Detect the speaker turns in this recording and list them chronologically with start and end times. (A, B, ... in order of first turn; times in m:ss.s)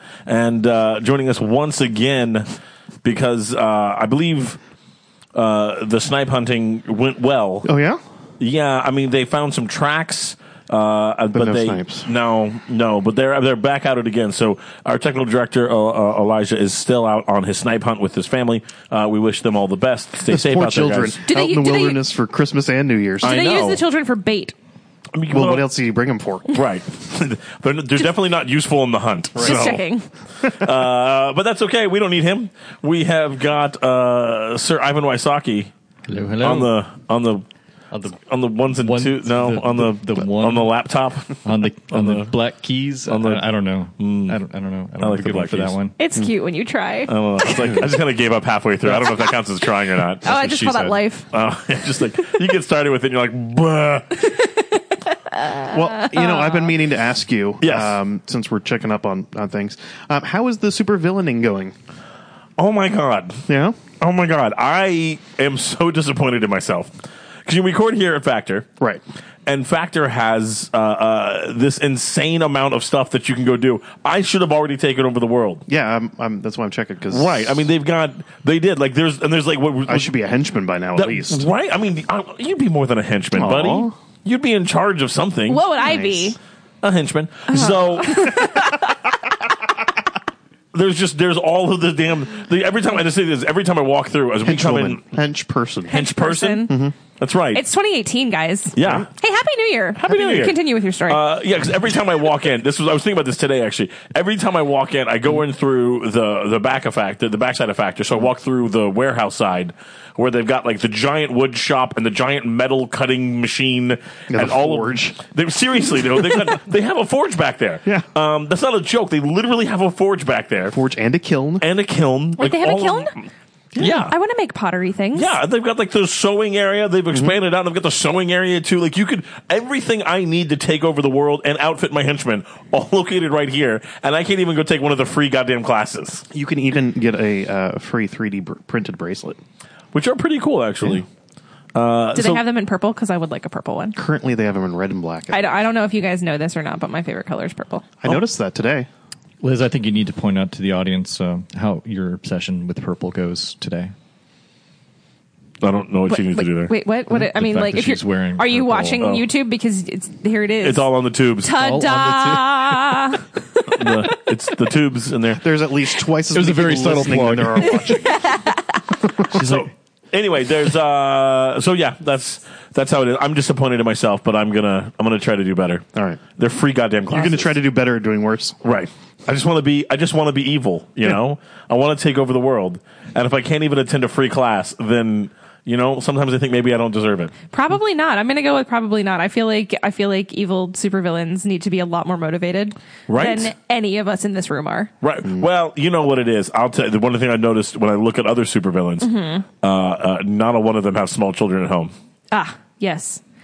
0:00.2-0:02.5 A
0:03.0-0:04.6 A
0:05.3-0:07.7 A
0:07.6-0:08.0 B
0:08.4-0:21.2 A
0:11.3-0:12.1 B
0:20.3-0:23.3 B
0:21.3-0:22.0 C
0:23.2-0:24.5 C
0:23.2-0:23.8 A
0:25.1-0:25.6 A
0:25.3-0:26.5 B
0:26.5-0:29.8 A
0:29.3-0:29.8 B
0:29.4-0:30.1 C
0:30.5-0:35.7 A
0:36.1-0:36.7 D
0:36.4-0:37.4 A
0:37.9-0:38.2 D
0:38.2-0:42.3 A
0:38.8-0:40.7 D
0:41.4-0:45.9 D
0:43.1-0:43.4 A
0:44.0-0:44.4 A
0:45.0-0:45.8 A
0:46.0-0:47.6 C
0:47.1-0:50.2 A
0:50.2-0:51.3 C
0:50.2-0:51.0 D
0:51.3-0:54.3 A
0:54.2-0:56.7 C
0:55.6-1:01.7 B
0:57.6-0:58.0 A
1:02.6-1:06.9 A
1:03.5-1:03.8 B
1:07.4-1:08.7 A
1:09.4-1:15.6 A
1:15.7-1:17.6 B
1:17.1-1:20.1 A
1:19.9-1:21.4 B
1:20.9-1:25.7 A
1:23.3-1:23.9 B
1:25.5-1:26.4 C
1:25.8-1:26.4 B
1:26.8-1:28.5 A
1:27.5-1:28.9 C
1:30.7-1:35.0 A
1:34.4-1:35.9 B
1:35.9-1:36.8 C
1:35.9-1:37.6 A
1:36.7-1:36.9 B
1:37.5-1:41.2 C
1:38.7-1:39.1 A
1:38.8-1:39.0 B
1:40.0-2:00.8 A
1:54.3-1:55.2 B
2:00.7-2:01.6 B
2:01.6-2:04.1 A
2:02.4-2:03.1 C
2:03.8-2:05.3 C
2:05.1-2:16.2 A
2:16.3-2:19.4 B
2:19.9-2:21.1 A
2:21.7-2:22.4 A
2:22.1-2:24.0 C
2:23.9-2:25.6 B
2:25.3-2:27.8 C
2:28.0-2:28.9 B
2:29.4-2:33.9 D
2:35.6-2:36.7 A
2:36.1-2:40.9 C
2:37.1-2:39.0 D
2:39.0-2:39.3 A
2:40.6-2:41.5 A
2:41.4-2:44.2 C
2:41.5-2:43.1 D
2:43.7-2:45.4 A
2:45.4-2:48.2 B
2:46.3-2:48.1 D
2:48.0-2:48.8 C
2:49.3-2:49.7 D
2:49.3-2:57.6 A
2:56.0-2:56.2 B
2:57.1-2:58.6 B
2:58.6-3:07.3 A
3:07.5-3:14.9 C
3:13.1-3:13.5 A
3:15.0-3:19.1 A
3:19.0-3:19.4 C
3:19.6-3:21.9 A
3:22.3-3:23.2 C